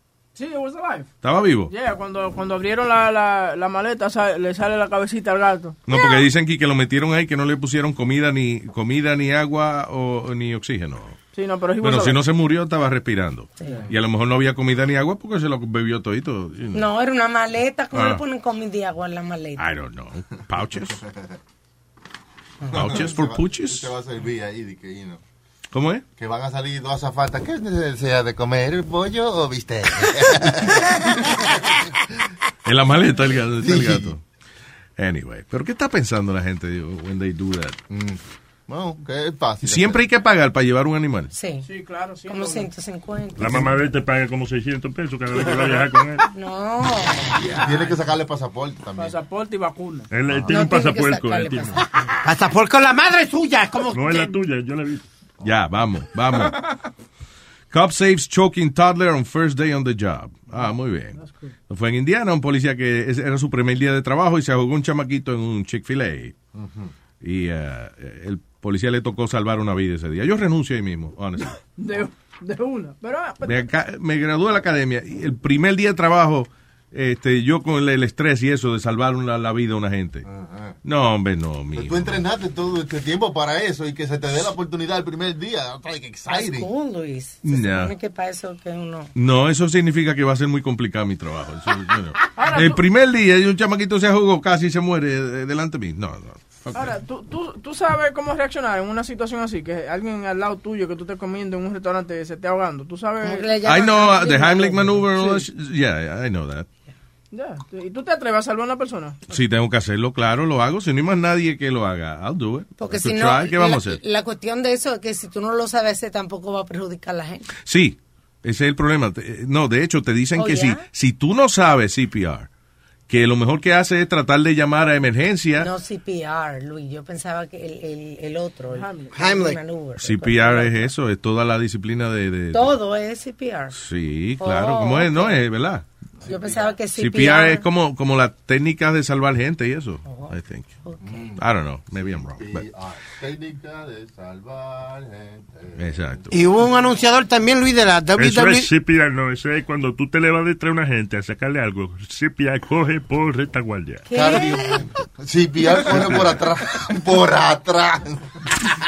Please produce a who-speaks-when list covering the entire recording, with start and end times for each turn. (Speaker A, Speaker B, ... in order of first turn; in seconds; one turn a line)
Speaker A: 0.3-1.1
Speaker B: 1.2-1.7
Speaker A: 1.6-6.1
Speaker B: 5.9-11.2
Speaker A: 11.3-12.2
Speaker B: 11.8-16.9
Speaker C: 13.6-13.9
Speaker C: 16.7-19.6
Speaker B: 17.9-18.2
Speaker B: 19.6-21.0
Speaker C: 22.6-22.9
Speaker B: 22.7-23.9
Speaker D: 22.7-25.2
Speaker B: 25.7-26.0
Speaker D: 26.2-31.5
Speaker B: 32.6-34.2
Speaker D: 33.6-34.1
Speaker B: 35.0-37.8
Speaker D: 37.9-40.0
Speaker B: 39.6-41.3
Speaker C: 41.3-41.7
Speaker A: 41.6-42.7
Speaker C: 42.3-43.8
Speaker E: 43.4-46.2
Speaker C: 46.3-47.5
Speaker D: 47.4-49.1
Speaker A: 49.0-50.1
Speaker E: 50.1-51.8
Speaker D: 50.3-50.6
Speaker C: 50.5-52.1
Speaker F: 52.2-54.4
Speaker E: 53.9-55.0
Speaker B: 55.4-56.6
Speaker B: 57.7-61.2
Speaker B: 61.7-66.3
Speaker D: 66.5-66.9
Speaker B: 67.2-71.5
Speaker A: 71.8-73.7
Speaker B: 73.4-80.2
Speaker D: 80.2-80.8
Speaker B: 80.8-82.2
Speaker D: 81.8-86.7
Speaker C: 86.3-89.1
Speaker B: 87.4-87.9
Speaker B: 89.2-96.9
Speaker A: 92.3-92.8
Speaker A: 96.7-103.5
Speaker C: 103.2-105.2
Speaker B: 103.6-106.7
Speaker A: 105.2-105.4
Speaker A: 107.3-109.2
Speaker B: 109.3-114.0
Speaker C: 112.8-117.5
Speaker B: 117.6-122.5
Speaker C: 120.3-120.8
Speaker B: 123.1-125.7
Speaker C: 125.6-130.9
Speaker A: 128.7-129.3
Speaker F: 129.1-129.6
Speaker B: 130.0-132.8
Speaker C: 132.5-133.8
Speaker B: 133.7-135.8
Speaker C: 134.4-135.4
Speaker D: 136.2-136.8
Speaker C: 136.2-137.7
Speaker B: 136.9-140.7
Speaker C: 140.1-141.3
Speaker D: 141.0-141.4
Speaker B: 141.4-142.6
Speaker D: 142.0-146.3
Speaker B: 145.8-146.3
Speaker F: 146.3-148.7
Speaker E: 148.2-154.1
Speaker C: 154.1-154.8
Speaker D: 154.1-158.3